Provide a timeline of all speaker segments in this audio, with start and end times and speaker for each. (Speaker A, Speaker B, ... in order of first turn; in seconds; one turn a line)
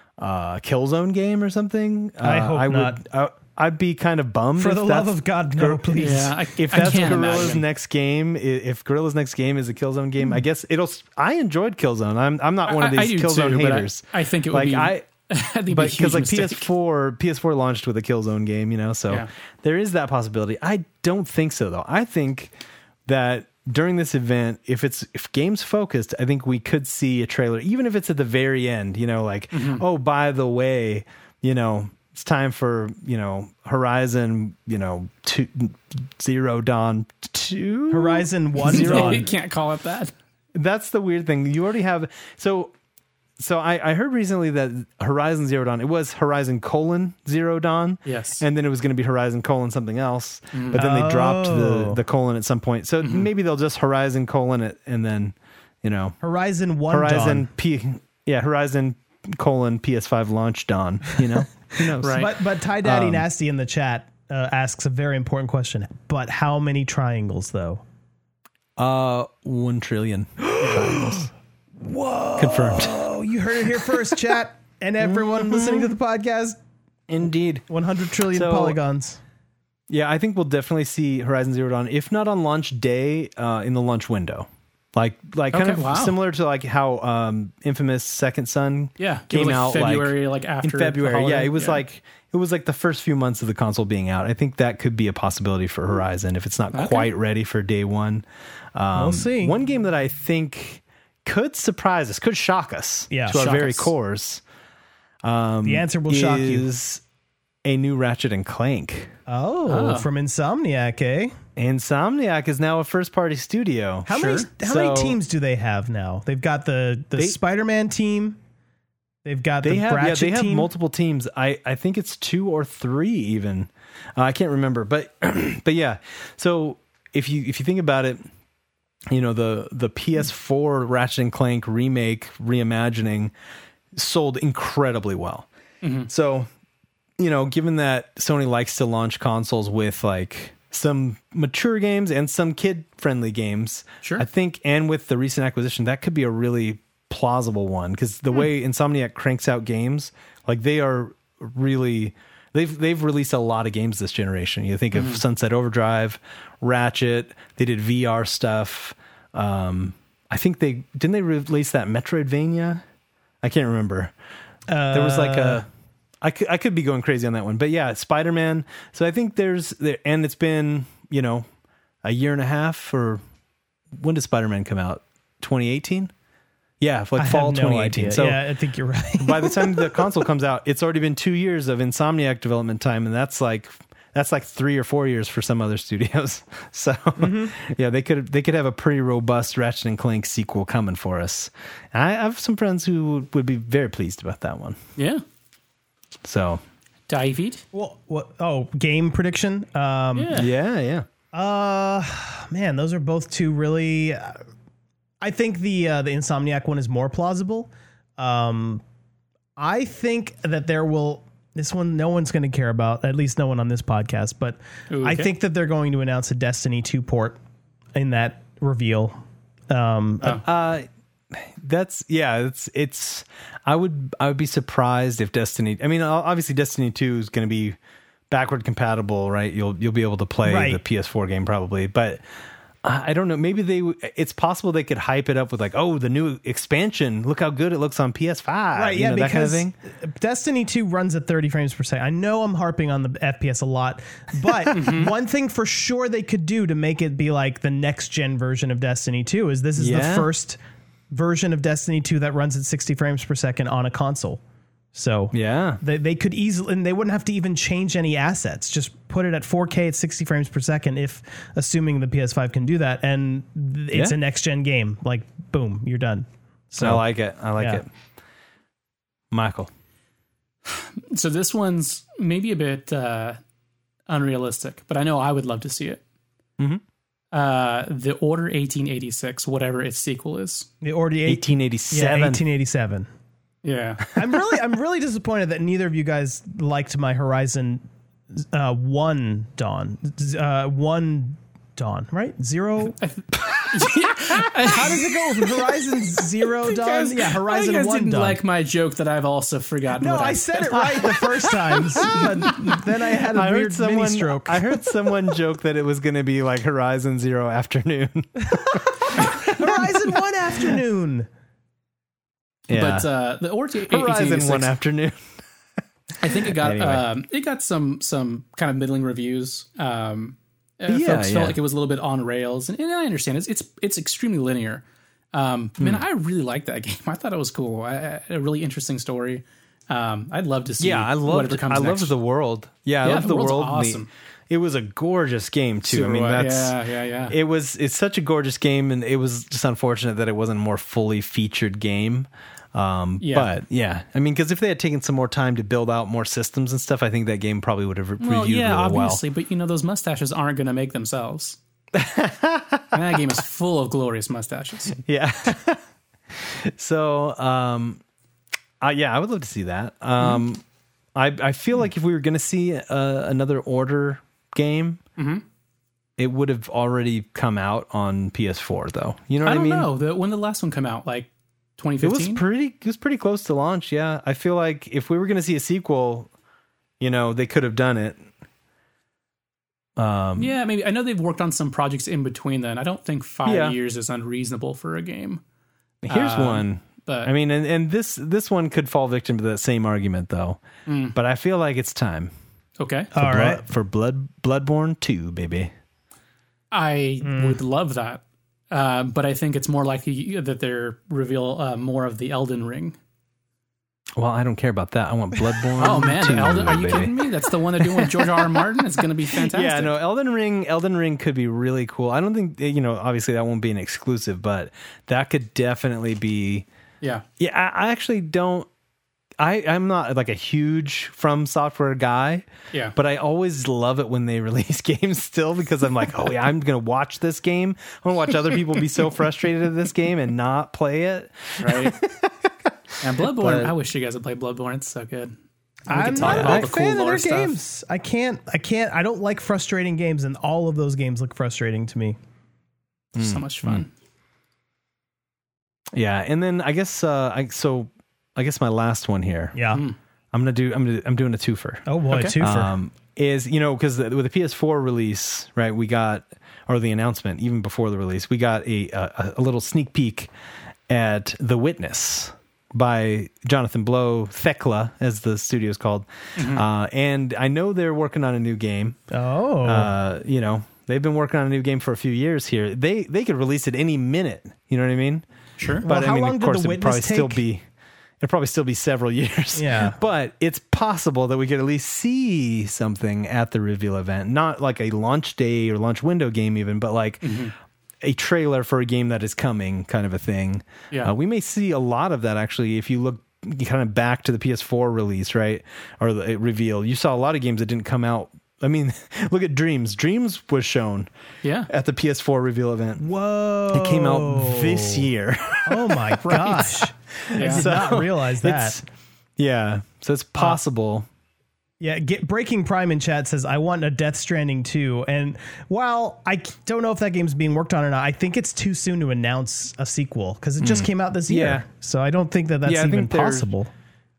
Speaker A: 0.2-15.0
Speaker B: 2.2-3.0
Speaker B: 4.6-7.4
Speaker C: 6.0-7.6
Speaker C: 12.7-16.7
Speaker A: 15.7-22.5
Speaker A: 23.1-39.3
Speaker C: 29.5-29.8
Speaker B: 37.9-39.3
Speaker C: 38.6-40.1
Speaker A: 40.5-42.7
Speaker A: 43.4-56.2
Speaker C: 48.0-48.4
Speaker C: 50.5-50.8
Speaker B: 50.7-52.0
Speaker C: 53.0-53.3
Speaker B: 56.2-57.5
Speaker A: 56.9-63.2
Speaker C: 62.0-62.3
Speaker B: 62.1-67.8
Speaker A: 68.8-71.3
Speaker B: 70.5-76.6
Speaker A: 72.3-73.0
Speaker A: 75.0-75.9
Speaker A: 77.1-77.7
Speaker B: 77.7-79.2
Speaker A: 78.3-78.8
Speaker A: 79.9-104.4
Speaker C: 85.5-86.2
Speaker C: 89.0-91.8
Speaker C: 96.7-97.1
Speaker B: 98.9-99.5
Speaker B: 103.1-103.4
Speaker C: 103.3-103.9
Speaker A: 105.2-107.0
Speaker B: 105.6-106.7
Speaker A: 107.6-109.1
Speaker B: 109.3-111.3
Speaker C: 109.7-110.1
Speaker A: 111.5-115.2
Speaker B: 114.0-118.4
Speaker C: 114.2-114.5
Speaker B: 119.2-120.7
Speaker A: 119.6-128.2
Speaker A: 129.1-133.3
Speaker A: 133.9-135.5
Speaker C: 135.8-136.1
Speaker A: 136.1-136.5
Speaker A: 137.2-162.8
Speaker C: 154.9-155.2
Speaker A: 163.4-164.1
Speaker B: 164.7-165.6
Speaker A: 164.9-165.7
Speaker A: 166.2-171.5
Speaker A: 172.0-173.2
Speaker A: 173.9-176.1
Speaker A: 176.8-178.4
Speaker B: 177.2-180.0
Speaker A: 179.2-194.8
Speaker B: 187.2-187.5
Speaker C: 195.0-195.2
Speaker A: 196.2-196.6
Speaker C: 197.1-197.6
Speaker B: 197.7-200.4
Speaker C: 200.1-200.5
Speaker A: 200.3-201.1
Speaker B: 201.3-204.4
Speaker B: 205.2-208.8
Speaker B: 209.6-217.4
Speaker C: 214.9-215.3
Speaker B: 217.9-220.4
Speaker A: 220.4-227.8
Speaker A: 228.3-232.2
Speaker B: 230.4-230.8
Speaker A: 232.8-239.7
Speaker B: 238.7-250.6
Speaker C: 244.7-245.1
Speaker A: 249.8-250.3
Speaker B: 251.1-254.4
Speaker B: 254.9-267.0
Speaker A: 255.3-255.8
Speaker A: 263.9-264.2
Speaker A: 266.8-267.9
Speaker B: 267.6-267.8
Speaker A: 269.3-269.7
Speaker C: 270.7-273.4
Speaker C: 274.1-276.0
Speaker C: 277.3-280.7
Speaker B: 280.8-283.1
Speaker A: 281.2-282.4
Speaker C: 283.6-284.1
Speaker B: 284.1-287.8
Speaker B: 288.4-293.0
Speaker C: 293.0-295.7
Speaker B: 294.7-298.4
Speaker C: 296.4-301.0
Speaker B: 300.0-304.9
Speaker A: 300.8-310.1
Speaker B: 308.5-311.3
Speaker A: 312.7-313.1
Speaker C: 312.7-314.7
Speaker A: 313.9-315.2
Speaker C: 316.2-332.1
Speaker A: 316.2-317.1
Speaker A: 320.9-321.6
Speaker A: 325.8-326.0
Speaker A: 330.8-336.8
Speaker C: 333.0-334.1
Speaker C: 335.9-337.3
Speaker A: 337.3-349.2
Speaker C: 343.2-343.5
Speaker C: 348.2-351.6
Speaker A: 351.9-353.0
Speaker C: 352.9-355.0
Speaker A: 354.9-358.0
Speaker A: 358.8-360.6
Speaker A: 361.1-365.0
Speaker C: 365.2-365.4
Speaker A: 366.2-369.9
Speaker C: 369.4-372.4
Speaker A: 372.0-376.3
Speaker A: 377.0-378.2
Speaker A: 380.0-380.6
Speaker C: 380.4-385.4
Speaker A: 383.4-383.8
Speaker A: 386.0-392.3
Speaker C: 386.1-387.3
Speaker C: 390.9-391.1
Speaker C: 392.8-393.1
Speaker A: 393.1-395.7
Speaker B: 393.1-393.6
Speaker C: 396.7-402.9
Speaker B: 397.2-397.6
Speaker A: 404.2-408.7
Speaker C: 405.8-409.9
Speaker A: 409.3-416.7
Speaker A: 417.4-418.7
Speaker A: 419.4-432.5
Speaker C: 431.6-431.9
Speaker C: 433.0-435.3
Speaker A: 433.2-433.7
Speaker C: 435.9-437.6
Speaker B: 435.9-442.2
Speaker A: 436.1-436.7
Speaker C: 443.1-443.9
Speaker A: 443.1-443.8
Speaker A: 445.9-449.6
Speaker B: 449.5-449.8
Speaker A: 450.3-460.3
Speaker B: 451.9-452.7
Speaker C: 452.1-452.4
Speaker A: 460.9-469.0
Speaker C: 466.4-466.6
Speaker B: 469.1-469.9
Speaker A: 469.6-475.2
Speaker C: 475.6-475.8
Speaker B: 475.8-477.4
Speaker A: 475.8-477.6
Speaker A: 478.2-487.4
Speaker B: 479.5-480.0
Speaker C: 487.2-487.5
Speaker A: 488.0-501.1
Speaker C: 501.4-501.7
Speaker A: 501.7-503.0
Speaker B: 503.0-505.1
Speaker A: 503.7-508.9
Speaker B: 505.7-508.8
Speaker C: 507.4-507.7
Speaker A: 509.4-511.1
Speaker B: 511.8-523.7
Speaker A: 520.6-521.6
Speaker A: 522.6-523.5